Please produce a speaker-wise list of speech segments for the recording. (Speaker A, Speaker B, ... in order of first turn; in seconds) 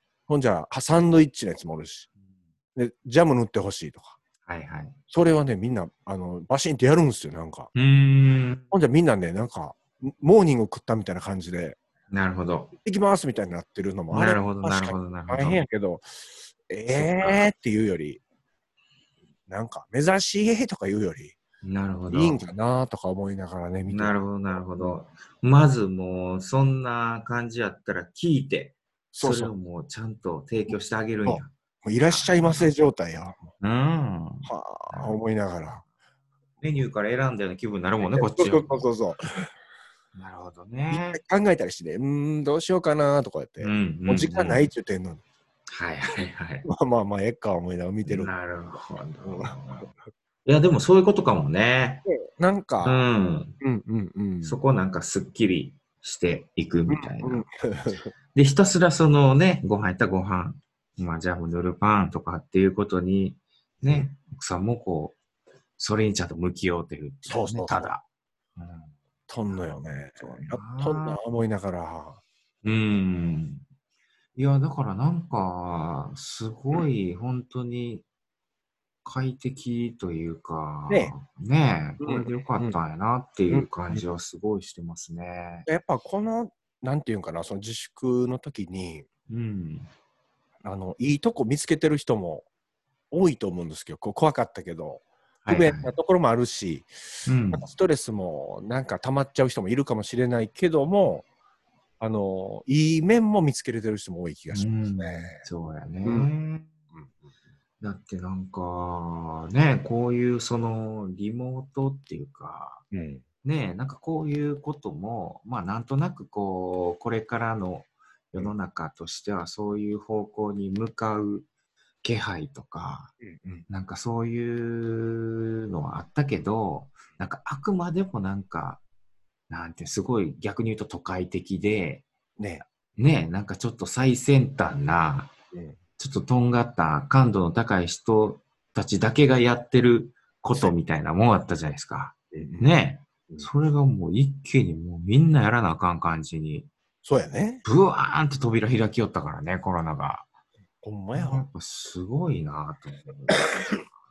Speaker A: 0.3-2.1, 2.8-4.2, 5.1-7.7, 8.7-11.8, 12.8-16.1, 16.7-18.2, 19.5-21.4, 22.1-24.2, 29.1-29.5, 31.2-33.5, 34.5-35.8, 38.0-39.5, 40.9-45.2, 46.7-48.3, 49.2-49.9, 52.1-53.0, 53.6-54.6, 56.9-58.1, 63.8-64.1, 67.3-67.9, 69.3-72.2, 82.0-82.8, 83.5-84.1, 85.7-89.1, 90.6-92.5, 93.1-101.2, 102.0-105.5, 106.0-106.3, 112.9-113.2, 123.2-123.7, 132.4-132.6, 142.3-142.8, 147.0-147.6, 150.8-151.5, 153.4-153.8
Speaker B: 4.5-5.0, 7.8-8.7, 12.1-12.7, 14.1-15.6, 16.9-17.5, 21.6-22.5, 23.9-32.8, 33.6-35.2, 36.6-38.9, 40.1-41.2, 43.6-44.7, 45.7-46.7, 48.1-49.9, 50.5-52.0, 52.8-53.5, 54.4-57.5, 58.3-65.2, 65.8-68.0, 68.6-69.0, 70.2-71.2, 72.6-73.7, 74.4-78.0, 79.0-85.7, 89.3-89.9, 95.5-95.9, 97.3-97.7, 104.5-106.7, 107.8-112.8, 113.4-121.5, 122.0-123.1, 123.7-128.8, 129.5-132.1, 132.9-135.3, 136.0-146.7, 147.6-150.3, 151.2-153.9